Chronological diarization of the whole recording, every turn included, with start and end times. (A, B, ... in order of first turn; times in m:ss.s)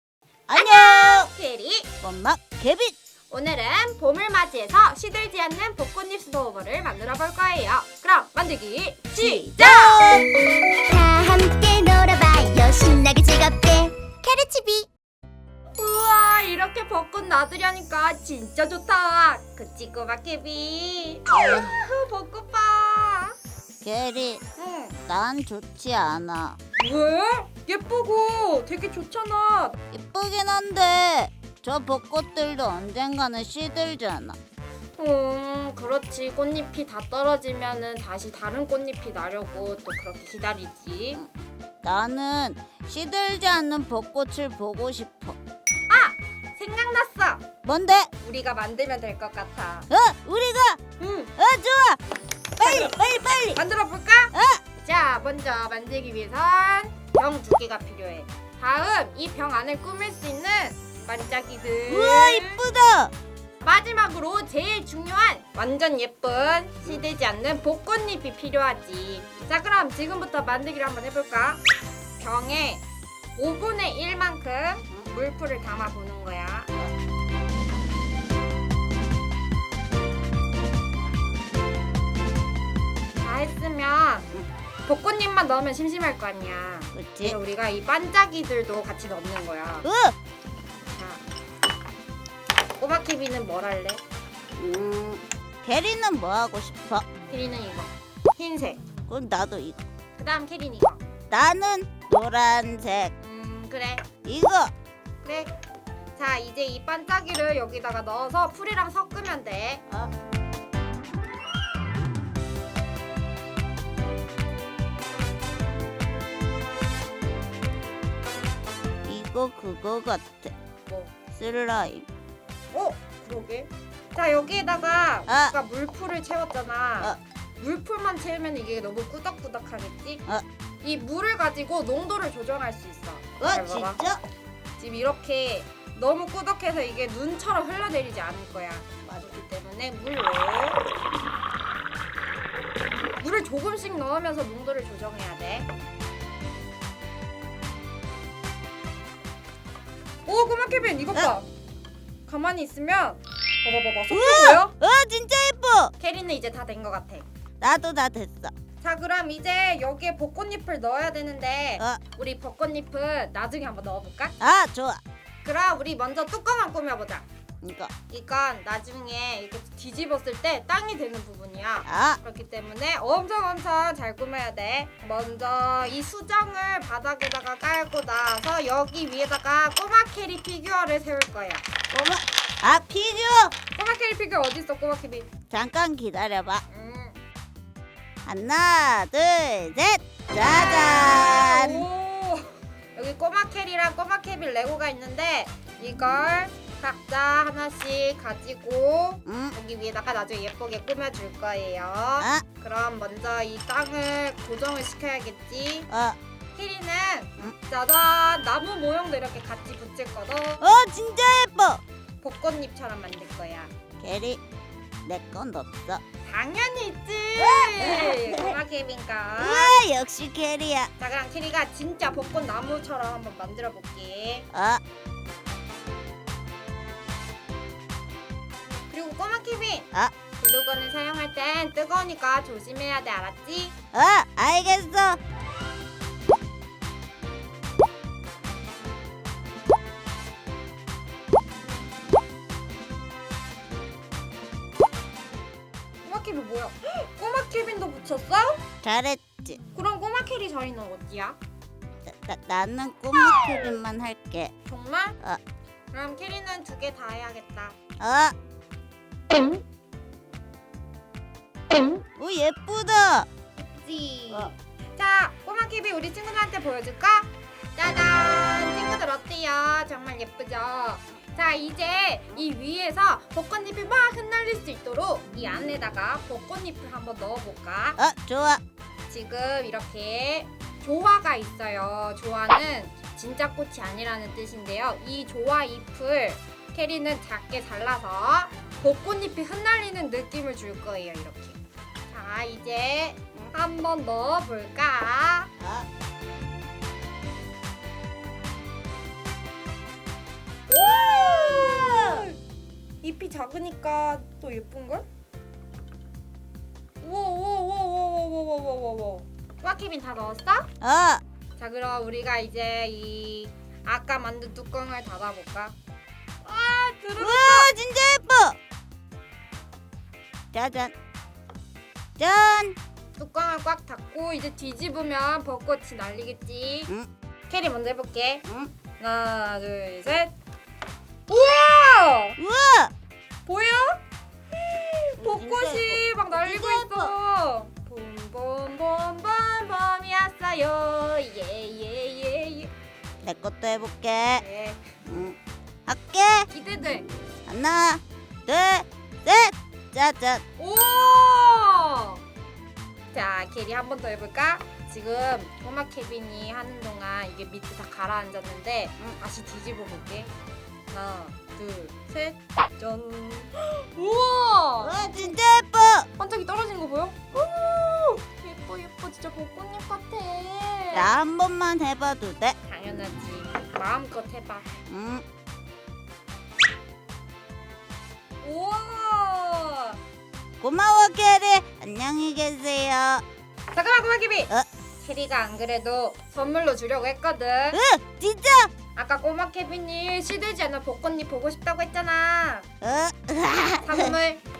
0:00.5-0:01.3 A
0:00.6-0:01.9 B
0:02.0-0:03.0 A
0:03.3-0:10.2 B
0:09.1-0:10.3 A
0:10.8-0:14.9 C
0:15.8-0:23.4 B
0:23.8-0:24.4 A
0:24.6-0:25.0 B
0:25.1-0:26.6 A
0:26.8-0:29.8 B
0:29.9-0:34.4 A
0:35.0-0:41.2 B
0:41.8-0:45.4 A
0:45.9-0:47.4 B
0:47.6-0:48.1 A
0:48.2-0:49.9 B
0:49.9-0:50.8 A
0:51.0-0:51.3 B
0:51.4-0:52.0 A
0:52.6-0:53.6 A
0:52.6-0:52.9 B
0:53.6-1:02.6 B
0:54.3-0:54.6 A
1:01.9-1:03.1 A
1:03.6-1:11.6 B
1:12.2-1:12.8 B
1:13.4-1:16.7 B
1:23.2-1:24.3 B
1:24.9-1:29.9 B
1:27.0-1:27.4 A
1:29.8-1:30.2 A
1:30.9-1:31.2 B
1:32.8-1:34.0 B
1:34.6-1:37.1 A
1:37.3-1:38.8 B
1:39.1-1:39.8 A
1:40.2-1:41.0 B
1:41.3-1:43.1 A
1:43.2-1:44.0 B
1:44.2-1:44.7 A
1:45.2-1:45.5 B
1:46.2-1:49.8 B
1:59.1-2:00.5 A
2:00.9-2:01.1 B
2:01.3-2:02.1 A
2:02.7-2:10.2 B
2:05.3-2:05.5 A
2:10.8-2:14.0 B
2:13.4-2:14.2 A
2:14.8-2:20.8 B
2:23.2-2:25.7 B
2:30.2-2:31.5 B
2:32.3-2:34.8 B
2:34.1-2:35.9 A
2:36.0-2:37.2 B
2:37.6-2:38.5 A
2:38.8-2:44.4 B
2:44.4-2:45.0 A
2:45.4-2:47.3 B
2:47.6-2:47.9 A
2:48.1-3:01.7 B
2:51.9-2:52.2 A
3:01.9-3:03.5 A
3:03.7-3:05.3 B
3:05.5-3:06.6 A
3:06.7-3:07.2 B
3:08.3-3:11.9 A
3:10.4-3:25.9 B
3:19.3-3:19.6 A
3:22.2-3:22.4 A
3:25.9-3:26.2 A
3:26.5-3:30.7 B
3:30.6-3:31.8 A
3:32.2-3:33.7 B
3:34.0-3:34.4 A
3:35.0-3:36.0 A
3:36.3-3:39.8 B
3:37.4-3:38.6 A
3:39.4-3:40.9 A
3:41.0-3:44.5 B
3:44.5-3:44.8 A
3:48.9-3:49.9 B
3:50.4-3:53.7 B
3:53.9-3:55.2 A
4:06.0-4:08.6 B
4:08.8-4:09.6 A
4:09.7-4:11.4 B
4:12.1-4:14.5 A
4:14.6-4:15.2 B
4:15.9-4:17.8 B
4:18.0-4:18.4 A
4:19.3-4:19.6 B
4:22.2-4:23.3 A
4:23.6-4:38.0 B
4:38.0-4:38.6 A
4:39.1-4:55.5 B
4:55.6-4:55.9 A
5:00.7-5:02.4 B
5:01.0-5:02.2 A
5:03.0-5:05.0 B
5:07.0-5:10.7 B
5:10.8-5:11.2 A
5:11.6-5:15.8 B
5:16.4-5:17.7 B
5:17.2-5:18.6 A
5:20.5-5:20.9 A
5:22.2-5:22.8 A
5:23.2-5:26.9 B
5:27.5-5:28.4 B
5:28.5-5:28.7 A
5:29.0-5:30.3 B
5:31.3-5:32.4 B
5:32.4-5:32.9 A
5:33.4-5:34.0 B
5:34.6-5:42.7 B
5:35.2-5:37.2 A
5:43.2-5:44.4 A
5:44.4-5:44.9 B
5:45.1-5:46.5 A
5:46.5-5:47.1 B
5:47.5-5:50.4 A
5:50.6-5:52.2 B
5:53.1-6:00.3 B
6:00.9-6:05.2 B
6:04.8-6:06.1 A
6:06.2-6:11.2 B
6:10.9-6:12.6 A
6:12.6-6:14.7 B
6:14.9-6:15.2 A
6:18.4-6:20.0 B
6:20.6-6:23.2 A
6:23.7-6:27.8 B
6:27.7-6:28.7 A
6:29.0-6:32.7 B
6:32.8-6:34.1 A
6:33.8-6:34.4 B